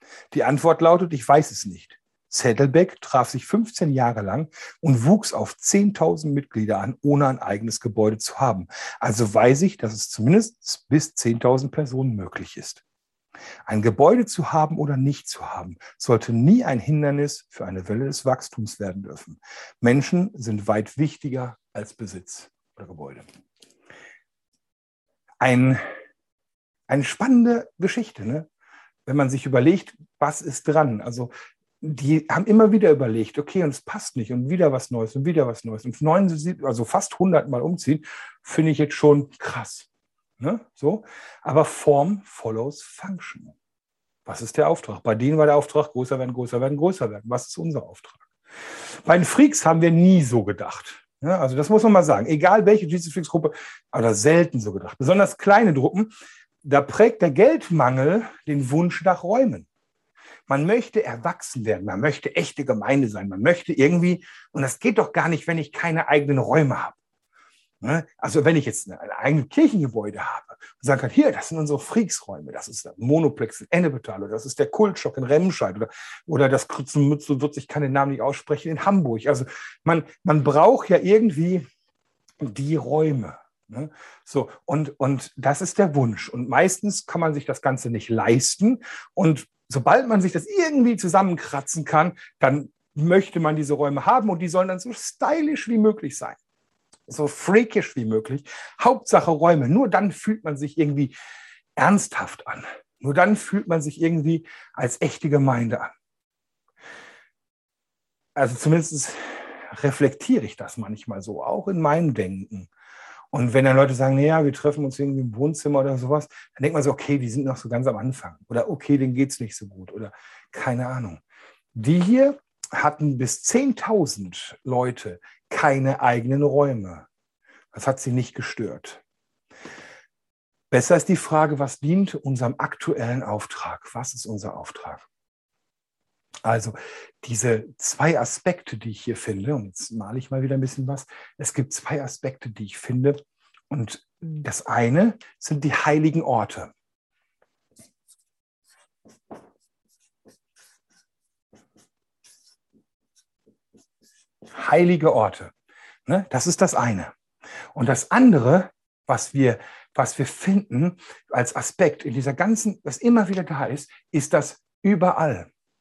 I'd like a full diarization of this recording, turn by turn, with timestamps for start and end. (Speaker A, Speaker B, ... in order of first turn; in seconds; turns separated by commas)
Speaker A: 0.3-12.8, Speaker A: 13.7-23.3, Speaker A: 25.4-25.8, Speaker A: 26.9-28.5, Speaker A: 29.1-39.9, Speaker A: 40.4-43.5, Speaker A: 44.3-48.2, Speaker A: 49.0-56.1, Speaker A: 56.6-59.7, Speaker A: 60.5-67.0, Speaker A: 67.8-81.7, Speaker A: 82.4-96.4, Speaker A: 97.1-101.1, Speaker A: 101.8-105.9, Speaker A: 108.3-112.7, Speaker A: 113.3-121.2, Speaker A: 121.8-127.1, Speaker A: 127.7-129.0, Speaker A: 130.7-135.1, Speaker A: 136.4-143.2, Speaker A: 143.7-146.7, Speaker A: 154.5-155.5, Speaker A: 156.1-157.1, Speaker A: 157.7-165.5